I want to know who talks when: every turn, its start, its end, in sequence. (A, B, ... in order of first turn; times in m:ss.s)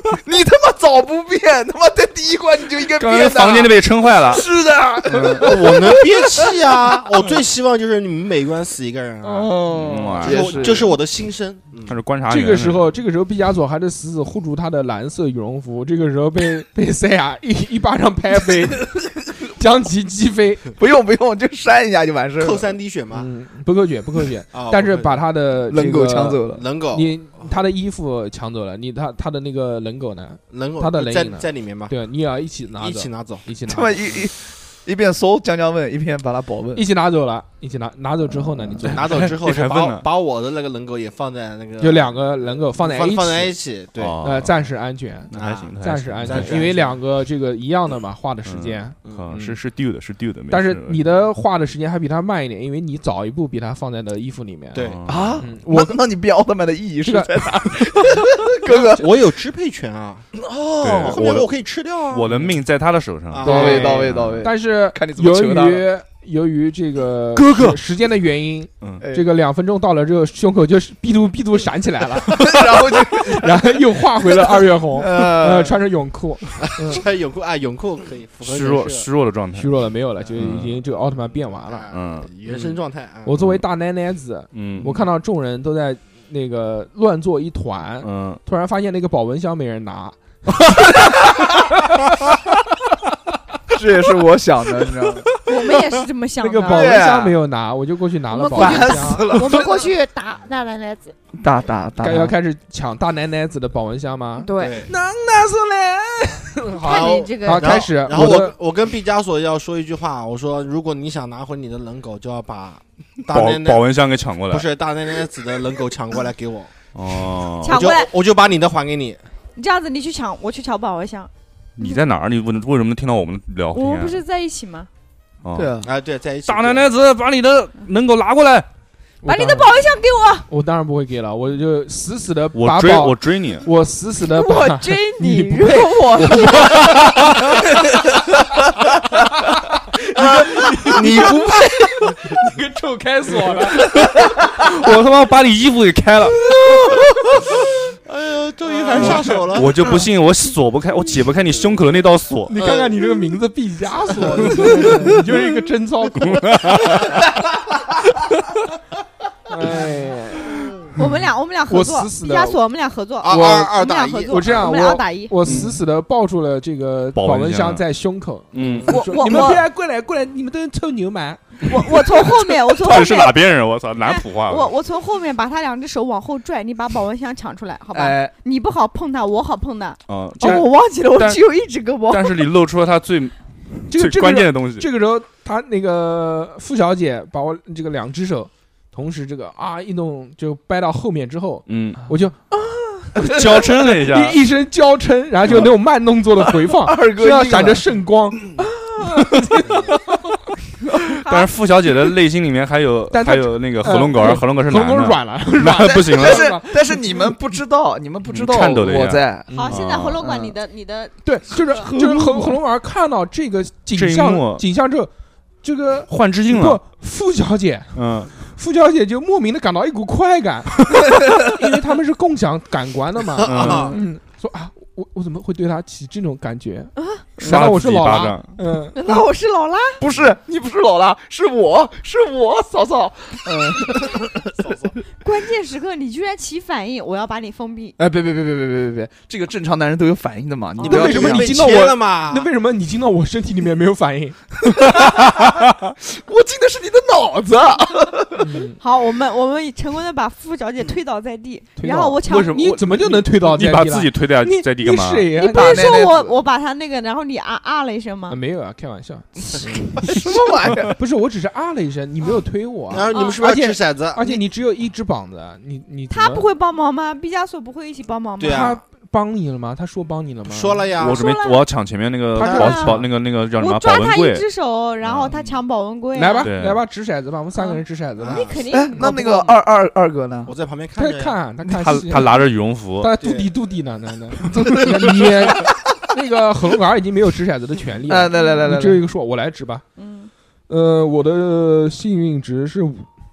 0:00.1-0:06.9 A
0:03.0-0:04.5 B
0:05.1-0:05.6 B
0:05.2-0:12.0 C
0:09.2-0:11.0 A
0:09.7-0:10.9 B
0:11.9-0:12.9 B
0:12.3-0:20.7 D
0:20.8-0:22.8 A
0:22.4-0:23.3 C
0:23.1-0:34.0 D
0:24.5-0:25.3 C
0:25.7-0:26.6 A
0:26.5-0:27.1 C
0:30.5-0:31.9 C
0:32.8-0:33.5 C
0:33.7-0:36.9 A
0:36.7-0:39.0 D
0:38.8-0:42.2 C
0:38.9-0:40.0 B
0:41.8-0:43.6 D
0:42.8-0:44.2 C
0:44.0-0:44.5 B
0:44.2-0:49.6 D
0:45.3-0:46.7 B
0:45.3-0:47.0 C
0:48.4-0:51.0 B
0:50.5-0:54.9 D
0:54.7-0:55.1 C
0:54.8-0:55.4 B
0:55.1-0:59.2 A
0:55.4-0:56.0 D
0:57.0-0:57.8 D
0:58.7-1:00.3 C
1:00.4-1:01.4 A
1:00.8-1:01.5 B
1:01.0-1:02.3 C
1:02.1-1:04.5 B
1:03.3-1:04.0 C
1:03.4-1:05.9 A
1:03.4-1:17.0 D
1:07.4-1:07.8 B
1:09.0-1:09.3 A
1:12.3-1:15.8 A
1:16.8-1:19.1 C
1:18.4-1:19.7 B
1:19.6-1:21.9 D
1:20.3-1:20.8 B
1:21.6-1:23.4 C
1:21.9-1:22.3 B
1:22.4-1:32.1 D
1:24.5-1:25.0 B
1:28.0-1:28.4 B
1:33.7-1:35.4 A
1:35.4-1:37.0 E
1:36.4-1:39.3 D
1:36.6-1:37.4 A
1:38.3-1:41.2 E
1:38.6-1:39.8 A
1:41.4-1:42.4 A
1:42.0-1:48.6 D
1:44.4-1:44.8 E
1:44.6-1:44.9 C
1:46.8-1:47.9 E
1:46.8-1:53.8 C
1:53.3-1:54.7 B
1:54.5-1:56.7 C
1:56.9-1:57.8 B
1:57.6-1:58.1 E
1:57.6-1:59.2 C
1:59.6-2:02.0 E
2:01.8-2:04.2 B
2:03.7-2:04.9 E
2:05.4-2:05.8 B
2:05.6-2:05.9 A
2:05.8-2:06.9 C
2:06.5-2:08.7 B
2:09.2-2:09.8 D
2:09.2-2:10.5 E
2:10.5-2:16.7 D
2:12.5-2:13.7 B
2:14.2-2:16.9 E
2:15.9-2:16.4 A
2:16.5-2:17.6 B
2:20.0-2:24.0 D
2:20.9-2:22.0 C
2:24.2-2:26.4 B
2:26.6-2:27.0 A
2:28.0-2:30.0 C
2:28.7-2:29.4 D
2:28.9-2:32.5 B
2:32.5-2:36.8 D
2:32.6-2:33.0 C
2:34.1-2:35.2 C
2:36.2-2:37.2 B
2:39.5-2:42.6 D
2:41.0-2:45.4 E
2:43.2-2:44.6 C
2:43.2-2:43.8 D
2:44.3-2:51.7 D
2:45.4-2:45.8 B
2:47.2-2:47.8 B
2:48.5-2:48.9 B
2:48.9-2:49.6 E
2:51.7-2:53.4 E
2:52.3-2:54.7 B
2:54.0-3:02.4 E
2:57.9-2:58.3 A
3:00.1-3:00.6 B
3:00.4-3:01.4 D
3:02.1-3:04.9 B
3:03.9-3:12.5 D
3:11.7-3:12.0 B
3:13.2-3:14.4 B
3:13.2-3:20.4 D
3:16.6-3:18.6 A
3:21.2-3:21.5 E
3:21.2-3:26.5 B
3:23.1-3:27.2 D
3:25.9-3:29.6 A
3:28.3-3:30.2 B
3:29.5-3:29.8 D
3:29.5-3:31.8 E
3:30.2-3:30.6 A
3:31.2-3:35.1 D
3:31.8-3:32.6 A
3:33.9-3:34.6 B
3:35.6-3:49.0 D
3:36.1-3:36.8 B
3:38.0-3:38.3 B
3:43.4-3:44.0 C
3:43.4-3:44.0 B
3:47.0-3:47.2 E
3:47.4-3:48.5 B
3:48.9-3:50.0 E
3:50.0-3:54.6 A
3:54.6-3:54.9 C
3:55.2-3:58.0 E
3:58.0-4:01.5 A
4:00.8-4:04.5 D
4:00.8-4:02.5 C
4:04.7-4:08.5 A
4:04.9-4:05.5 B
4:08.4-4:08.8 D
4:08.8-4:12.6 E
4:11.8-4:15.9 D
4:12.3-4:15.3 B
4:15.4-4:18.4 E
4:15.4-4:16.4 A
4:18.3-4:26.5 D
4:20.0-4:21.0 A
4:22.9-4:24.4 C
4:23.1-4:23.4 E
4:26.1-4:28.8 E
4:28.4-4:28.8 C
4:28.4-4:30.9 D
4:30.5-4:31.3 C
4:31.0-4:31.6 E
4:31.0-4:34.4 B
4:32.4-4:36.5 E
4:32.4-4:33.1 D
4:35.0-4:35.4 B
4:35.3-4:35.5 C
4:36.2-4:39.2 D
4:36.4-4:36.8 B
4:37.6-4:39.6 E
4:38.2-4:38.6 C
4:38.7-4:40.5 A
4:40.5-4:41.4 C
4:41.0-4:42.5 D
4:41.8-4:43.1 B
4:43.0-4:49.8 D
4:43.2-4:43.5 C
4:44.5-4:45.6 A
4:48.1-4:49.1 A
4:48.3-4:48.6 E
4:50.0-4:50.3 E
4:50.7-4:53.1 D